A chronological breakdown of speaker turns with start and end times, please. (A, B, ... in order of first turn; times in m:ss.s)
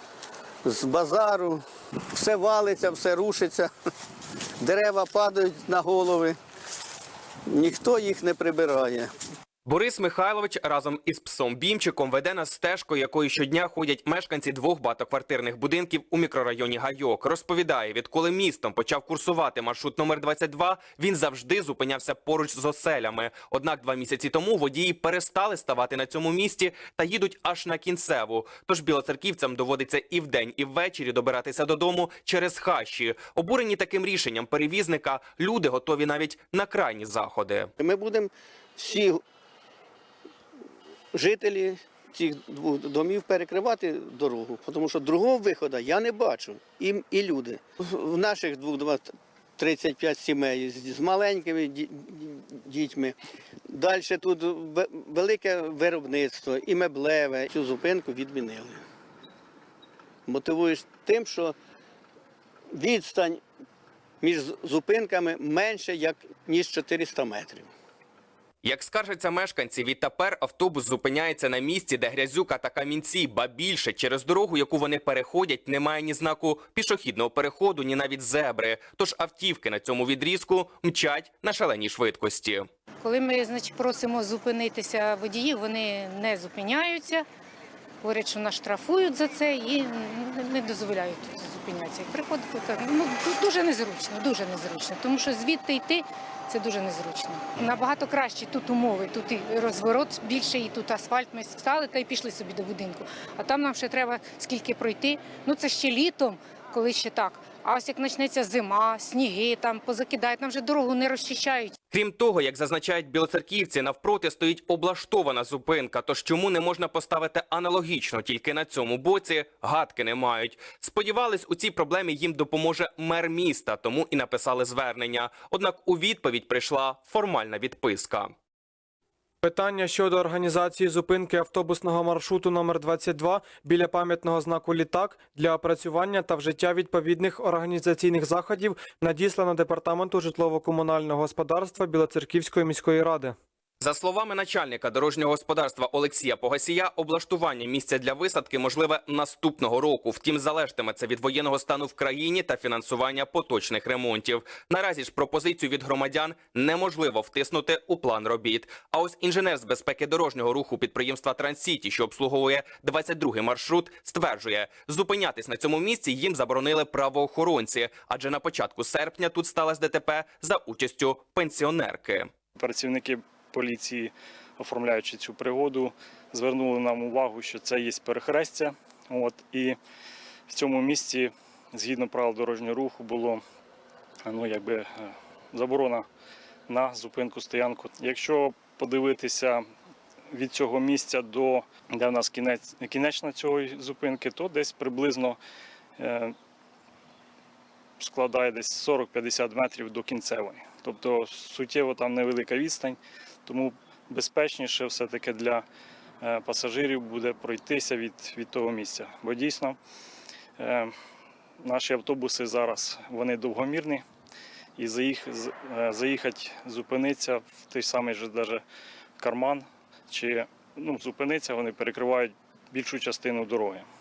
0:00.6-0:01.6 A
0:02.1-0:03.7 A
0:04.6-0:06.4 A
0:07.5-0:09.1 A
0:09.6-0:37.7 B
0:37.8-0:39.2 A
0:41.1-0:53.1 A
0:53.7-0:58.8 A
1:00.2-1:01.5 A
1:02.7-1:03.4 A
1:04.2-1:07.7 A
1:08.6-1:22.6 B
1:23.0-1:27.2 C
1:28.0-1:51.8 C
1:51.9-2:08.3 B
2:09.5-2:23.3 D
2:23.8-2:52.3 B
2:52.6-2:59.8 E
3:00.5-3:03.4 E
3:04.2-3:06.1 E
3:06.7-3:09.6 E
3:10.3-3:15.4 E
3:16.0-3:16.3 E
3:18.0-3:25.7 E
3:26.2-3:29.8 E
3:30.6-3:30.9 E
3:31.6-3:34.0 E
3:34.8-3:38.6 E
3:39.2-3:43.8 E